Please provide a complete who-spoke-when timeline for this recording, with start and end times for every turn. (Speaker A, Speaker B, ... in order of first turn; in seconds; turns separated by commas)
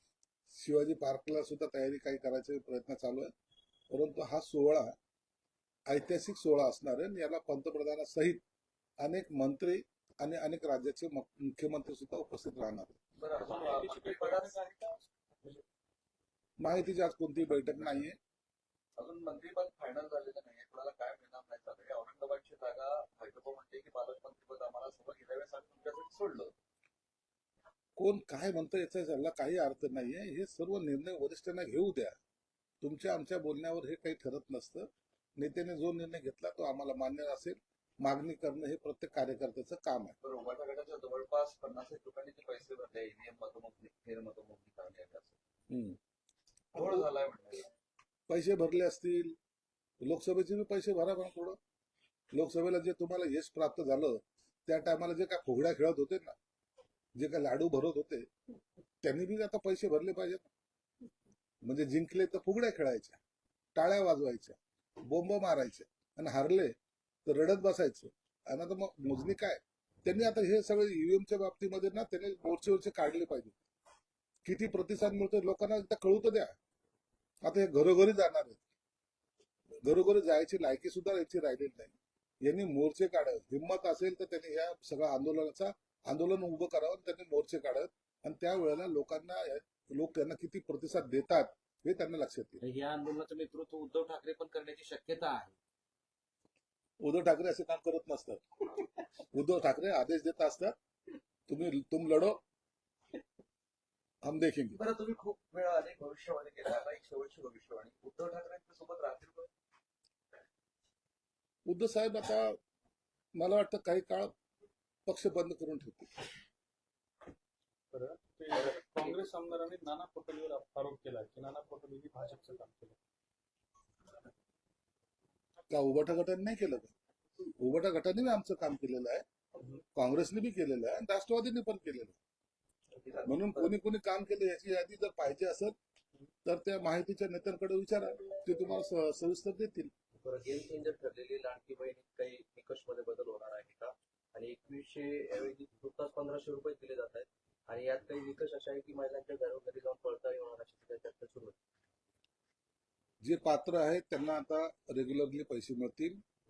Speaker A: 0.5-3.3, Speaker A: 3.9-5.0, Speaker A: 5.9-8.4, Speaker A: 9.0-12.9, Speaker B: 13.2-14.5, Speaker C: 13.4-15.6, Speaker A: 16.6-18.2, Speaker B: 19.0-26.5, Speaker A: 28.0-32.2, Speaker A: 32.8-40.2, Speaker B: 40.2-45.4, Speaker A: 45.7-46.0, Speaker A: 46.8-47.1, Speaker B: 46.8-47.6, Speaker A: 48.3-49.4, Speaker A: 50.0-51.6, Speaker A: 52.3-56.4, Speaker A: 57.2-58.3, Speaker A: 59.0-60.5, Speaker A: 61.6-63.2, Speaker A: 63.8-66.8, Speaker A: 67.3-73.6, Speaker A: 74.5-76.5, Speaker A: 77.4-78.6, Speaker A: 79.8-92.6, Speaker D: 92.6-95.5, Speaker A: 97.0-98.4, Speaker A: 99.2-100.8, Speaker A: 101.5-102.4, Speaker A: 104.2-104.8, Speaker B: 104.8-109.5, Speaker A: 111.7-112.6, Speaker A: 113.4-114.3, Speaker A: 115.1-116.3, Speaker C: 117.9-123.0, Speaker B: 118.6-119.1, Speaker A: 125.7-126.9, Speaker A: 127.6-129.2, Speaker A: 129.9-132.2, Speaker B: 133.1-133.7, Speaker A: 133.3-135.8, Speaker A: 136.4-139.9, Speaker E: 140.2-151.6, Speaker A: 153.2-156.2